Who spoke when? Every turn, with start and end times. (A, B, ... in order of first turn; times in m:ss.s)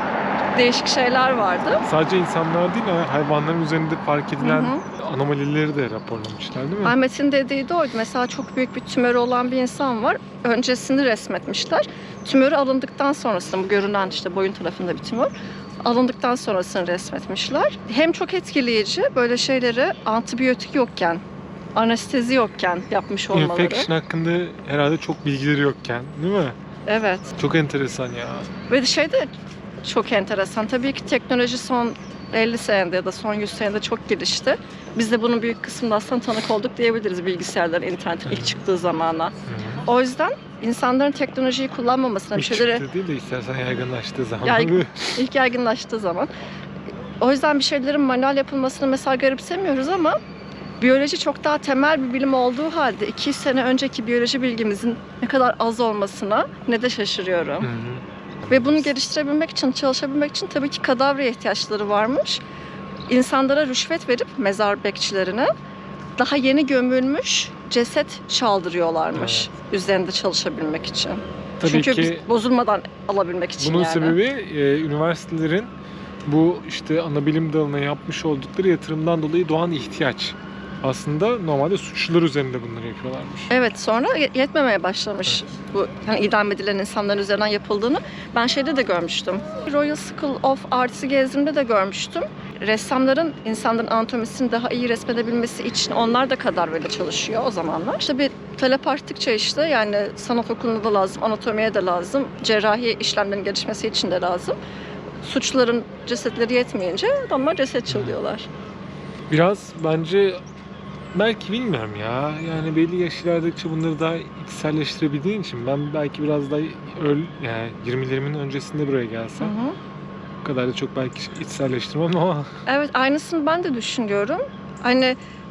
0:00.5-0:01.8 A
0:01.8-0:06.9 B
0:04.4-0:04.8 A
0:06.8-0:15.3 A
0:15.8-0:21.2 A
0:21.7-0:23.9 A
0:23.3-0:26.6 B
0:26.9-0:27.3 A
0:27.4-0:28.5 B
0:28.7-0:29.3 A
0:29.8-0:42.8 A
0:38.3-0:38.6 B
0:39.5-0:39.8 B
0:42.3-0:45.2 B
0:44.4-0:46.3 A
0:47.2-0:50.2 A
0:50.8-0:57.7 A
0:57.6-0:58.8 B
0:58.5-1:02.4 A
1:03.1-1:05.5 A
1:06.2-1:14.2 A
1:09.1-1:09.5 B
1:11.6-1:12.3 B
1:13.6-1:15.7 B
1:16.2-1:23.5 B
1:23.5-1:44.6 A
1:45.2-1:48.5 A
1:47.8-1:48.2 B
1:49.3-1:50.4 B
1:51.1-1:59.5 B
1:59.4-1:59.8 A
2:00.4-2:02.5 B
2:02.6-2:05.2 A